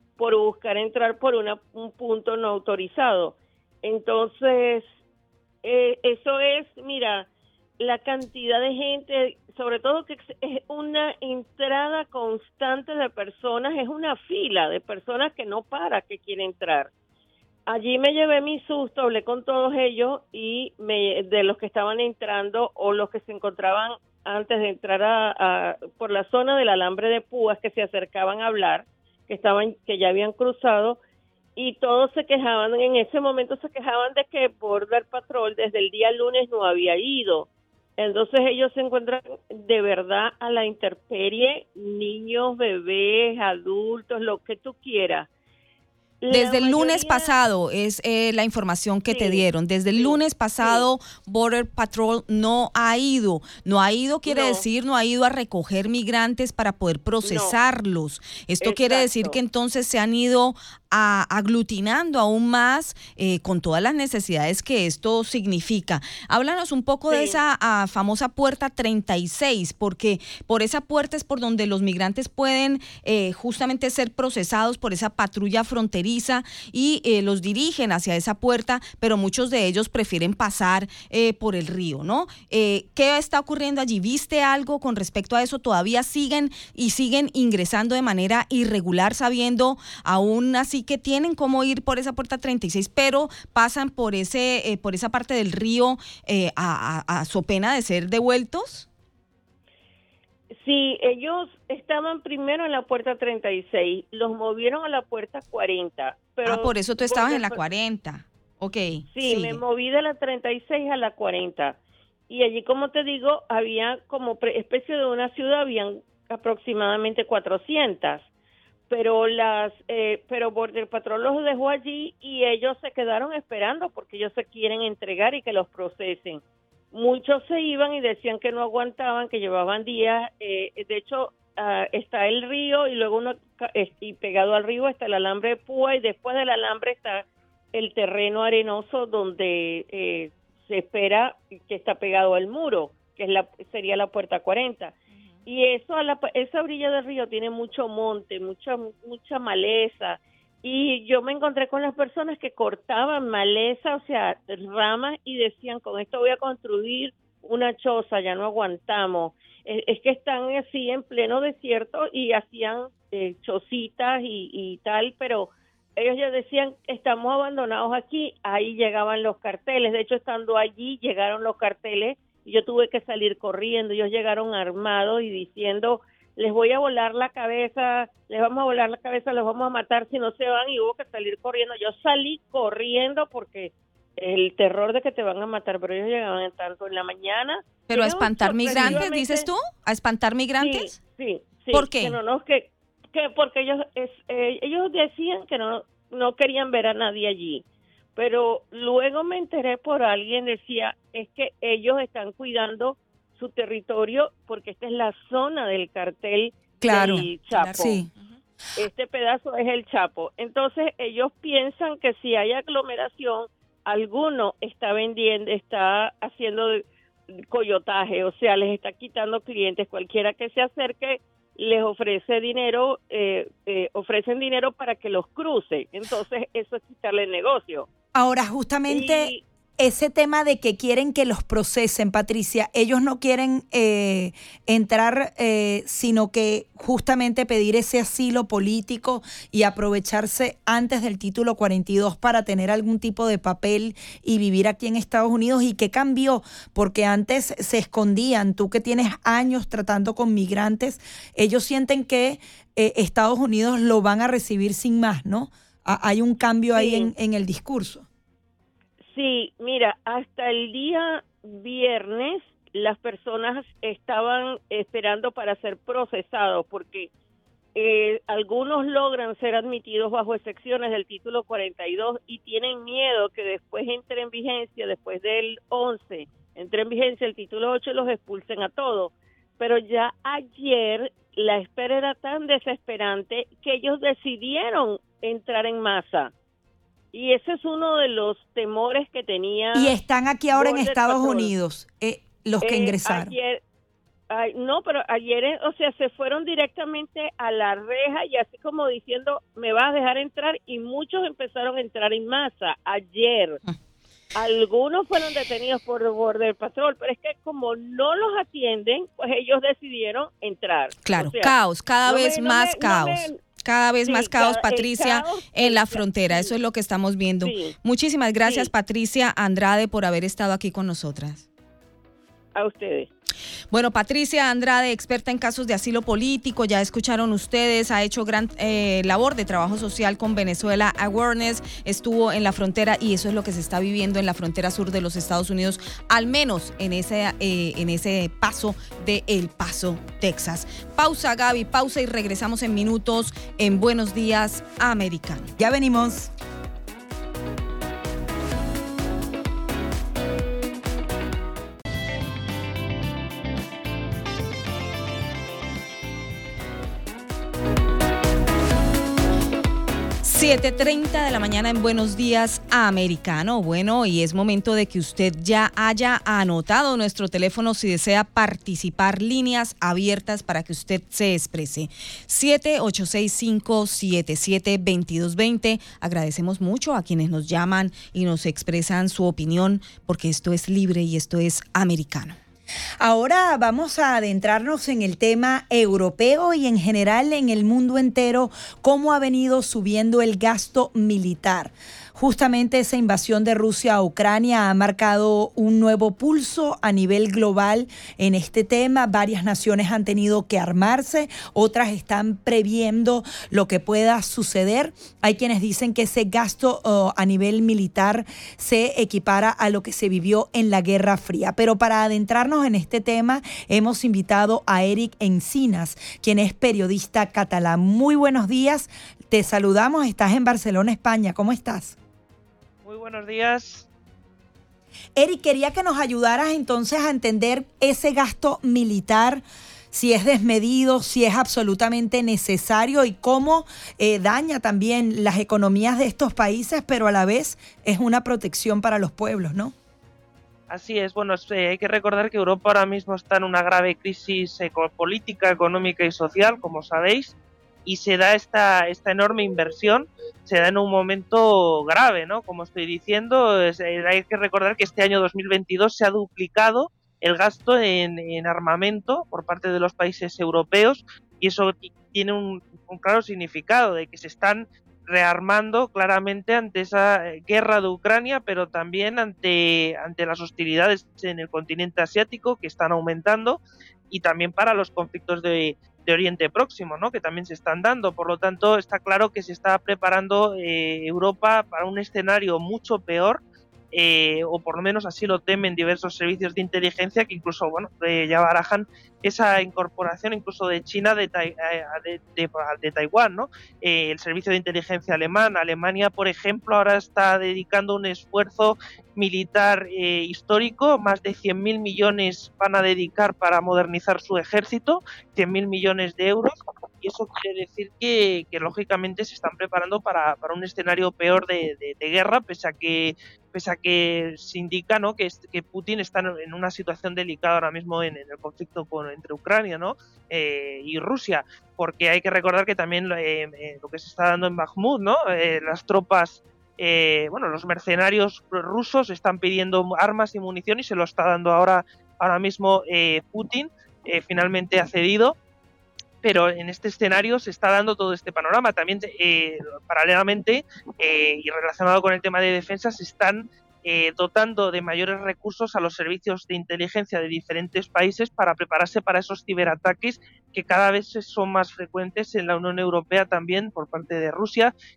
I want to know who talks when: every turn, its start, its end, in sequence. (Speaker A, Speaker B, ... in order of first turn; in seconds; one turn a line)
Speaker A: 0.2-4.8
Speaker A: 5.6-7.3
Speaker A: 7.8-16.9
Speaker A: 17.7-31.0
Speaker A: 31.6-37.5
Speaker A: 38.0-45.3
Speaker A: 46.2-47.3
Speaker B: 46.3-98.9
Speaker A: 49.1-50.9
Speaker A: 54.3-54.6
Speaker A: 57.2-57.5
Speaker A: 58.6-59.4
Speaker A: 67.1-67.4
Speaker A: 100.5-107.6
Speaker B: 106.5-109.6
Speaker A: 109.1-111.8
Speaker A: 112.3-118.3
Speaker A: 118.9-126.4
Speaker A: 126.9-144.9
Speaker A: 145.5-189.5
Speaker B: 187.9-191.0
Speaker A: 190.6-197.6
Speaker B: 191.7-192.2
Speaker A: 198.2-208.0
Speaker C: 206.8-208.1
Speaker B: 207.5-207.9
Speaker A: 208.8-227.9
Speaker C: 228.2-258.1
Speaker A: 228.9-229.4
Speaker A: 256.8-257.1
Speaker A: 259.1-267.1
Speaker A: 267.8-286.3
Speaker A: 287.1-289.9
Speaker C: 289.7-293.3
Speaker A: 290.5-291.5
Speaker A: 292.6-293.6
Speaker A: 294.3-303.6
Speaker A: 304.4-311.5
Speaker B: 311.1-321.4
Speaker A: 312.1-313.4
Speaker A: 314.1-316.5
Speaker A: 317.4-317.7
Speaker A: 318.4-318.7
Speaker A: 322.6-323.1
Speaker B: 323.7-345.5
Speaker C: 345.6-346.3
Speaker B: 360.2-382.4
Speaker C: 383.0-421.9
Speaker D: 422.8-423.9
Speaker C: 425.2-439.7
Speaker D: 440.7-447.3
Speaker D: 447.9-473.6
Speaker D: 474.1-483.4
Speaker D: 483.9-535.4
Speaker D: 536.2-554.7